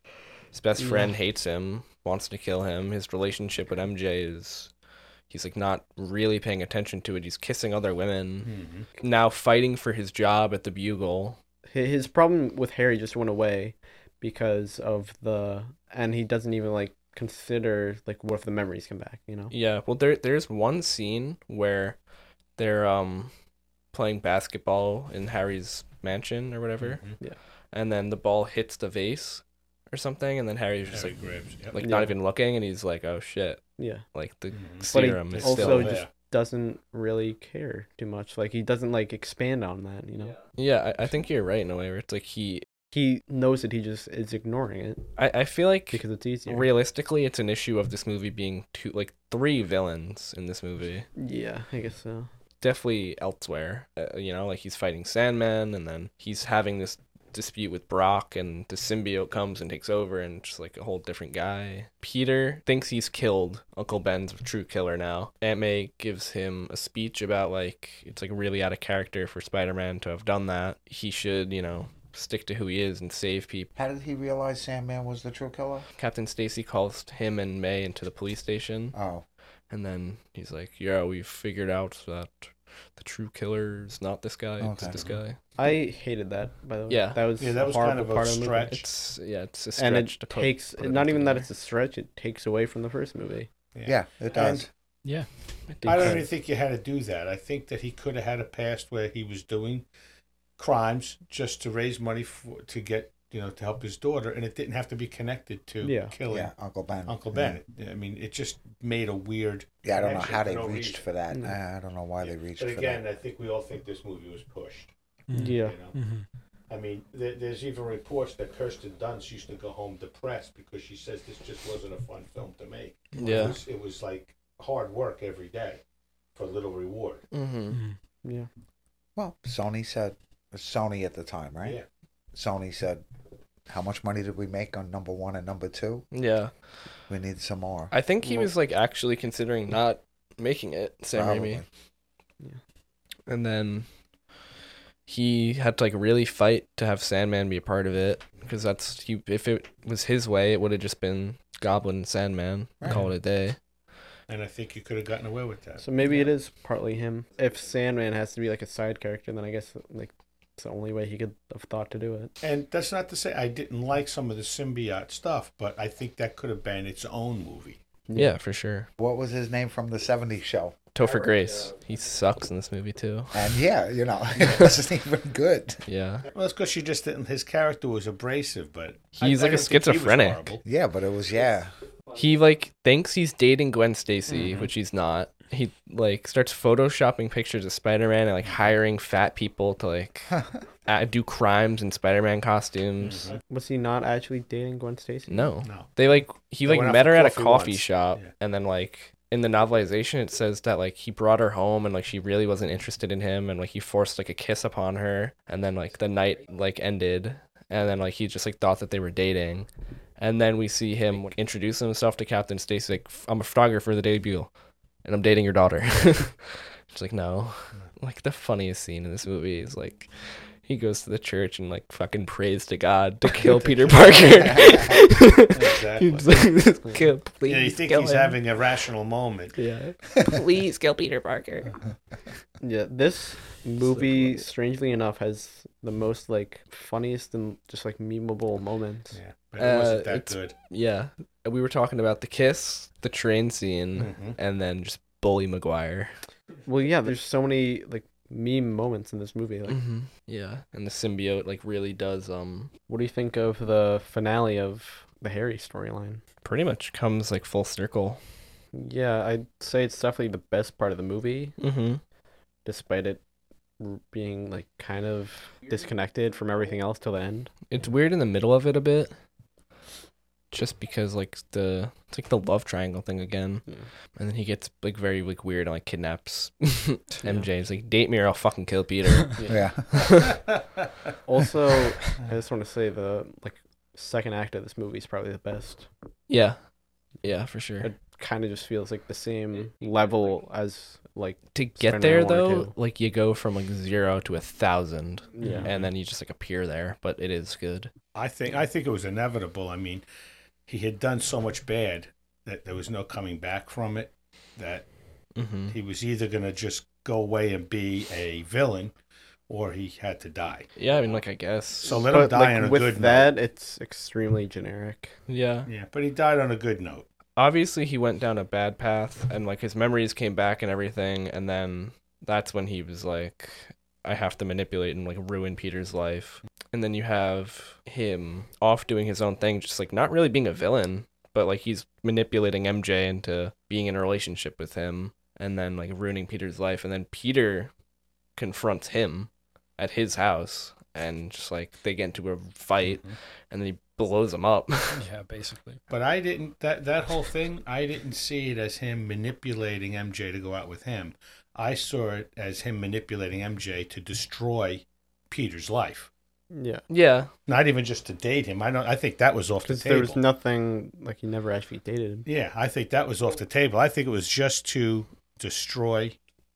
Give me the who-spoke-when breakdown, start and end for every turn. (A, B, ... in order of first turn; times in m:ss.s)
0:00.5-0:04.7 A
0:00.8-0:01.1 B
0:05.3-0:11.4 A
0:08.4-0:08.9 C
0:11.7-0:19.5 B
0:19.5-0:22.0 A
0:22.6-0:23.3 A
0:23.9-0:27.0 A
0:26.8-0:27.2 C
0:27.7-0:36.0 A
0:30.9-0:31.8 C
0:31.8-0:32.1 B
0:33.8-0:34.0 B
0:34.5-0:36.1 C
0:34.8-0:40.4 B
0:40.5-0:42.6 A
0:42.9-0:45.1 B
0:45.2-0:51.1 A
0:45.9-0:46.7 B
0:51.2-0:52.3 B
0:52.6-1:13.7 A
1:13.7-1:15.9 D
1:16.0-1:19.0 A
1:18.9-1:19.2 D
1:19.7-1:25.4 A
1:24.6-1:25.0 D
1:24.9-1:25.2 C
1:25.6-1:28.8 B
1:26.9-1:27.2 A
1:27.4-1:28.9 C
1:28.7-1:31.5 A
1:29.8-1:33.5 B
1:33.7-1:34.7 C
1:33.8-1:34.7 D
1:35.7-1:36.2 A
1:35.8-1:36.2 B
1:35.8-1:39.9 C
1:40.6-1:51.0 C
1:45.8-1:46.1 B
1:46.3-1:47.6 D
1:49.8-1:53.0 D
1:51.3-1:51.6 B
1:52.2-1:54.9 C
1:55.3-1:56.2 E
1:55.3-1:55.8 B
1:55.5-1:56.0 C
1:56.7-2:05.8 C
2:03.2-2:03.5 E
2:03.2-2:03.6 A
2:06.3-2:07.2 C
2:07.3-2:07.8 A
2:07.7-2:08.0 E
2:09.2-2:11.8 D
2:11.6-2:11.8 C
2:12.3-2:13.0 D
2:13.7-2:16.1 D
2:16.1-2:16.5 A
2:17.1-2:17.9 D
2:17.9-2:21.6 A
2:21.1-2:21.6 D
2:23.3-2:23.9 A
2:25.0-2:33.6 A
2:32.8-2:33.0 D
2:34.3-2:35.8 C
2:35.8-2:42.3 B
2:42.4-2:47.8 C
2:48.1-2:48.3 B
2:48.1-2:48.9 A
2:49.0-2:50.8 D
2:50.9-2:53.5 A
2:51.0-2:51.3 B
2:53.3-2:55.8 D
2:55.8-2:56.2 A
2:56.3-3:00.6 C
2:59.2-3:00.6 A
3:00.6-3:01.7 D
3:02.1-3:13.4 A
3:04.3-3:04.7 B
3:13.0-3:13.4 C
3:13.5-3:15.5 B
3:15.3-3:34.5 A
3:15.6-3:15.9 C
3:16.6-3:18.3 C
3:31.1-3:31.4 B
3:35.0-3:48.4 A
3:43.4-3:44.1 B
3:43.8-3:44.2 C
3:45.4-3:46.6 C
3:47.4-3:49.6 C
3:49.5-3:51.7 A
3:52.6-3:59.2 B
3:53.8-3:54.5 A
3:59.1-4:00.5 C
3:59.6-4:06.1 A
4:04.0-4:04.4 C
4:06.6-4:09.8 B
4:09.7-4:12.7 A
4:12.9-4:16.2 B
4:16.4-4:18.2 A
4:18.7-4:21.6 B
4:21.6-4:22.0 A
4:22.6-4:23.2 B
4:23.8-4:27.6 B
4:27.7-4:29.1 A
4:30.5-4:40.3 A
4:39.4-4:39.7 B
4:39.5-4:40.2 D
4:40.5-4:40.8 C
4:41.2-4:45.9 B
4:46.3-4:46.7 A
4:47.2-4:47.9 A
4:47.8-4:52.7 B
4:51.5-4:57.9 A
4:55.4-4:55.7 B
4:55.4-4:55.9 C
4:58.1-5:00.0 C
5:00.6-5:04.9 C
5:05.3-5:05.8 A
5:05.7-5:08.9 C
5:09.5-5:11.2 C
5:10.8-5:12.1 A
5:11.8-5:13.3 C
5:12.1-5:15.2 B
5:15.3-5:15.7 A
5:15.6-5:17.1 C
5:17.4-5:37.7 A
5:38.4-5:45.0 A
5:42.8-5:43.2 C
5:44.9-5:45.8 E
5:45.9-5:56.1 C
5:56.5-5:56.8 B
5:56.9-5:57.3 A
5:57.4-6:00.2 C
5:59.6-6:02.2 B
6:02.2-6:06.2 C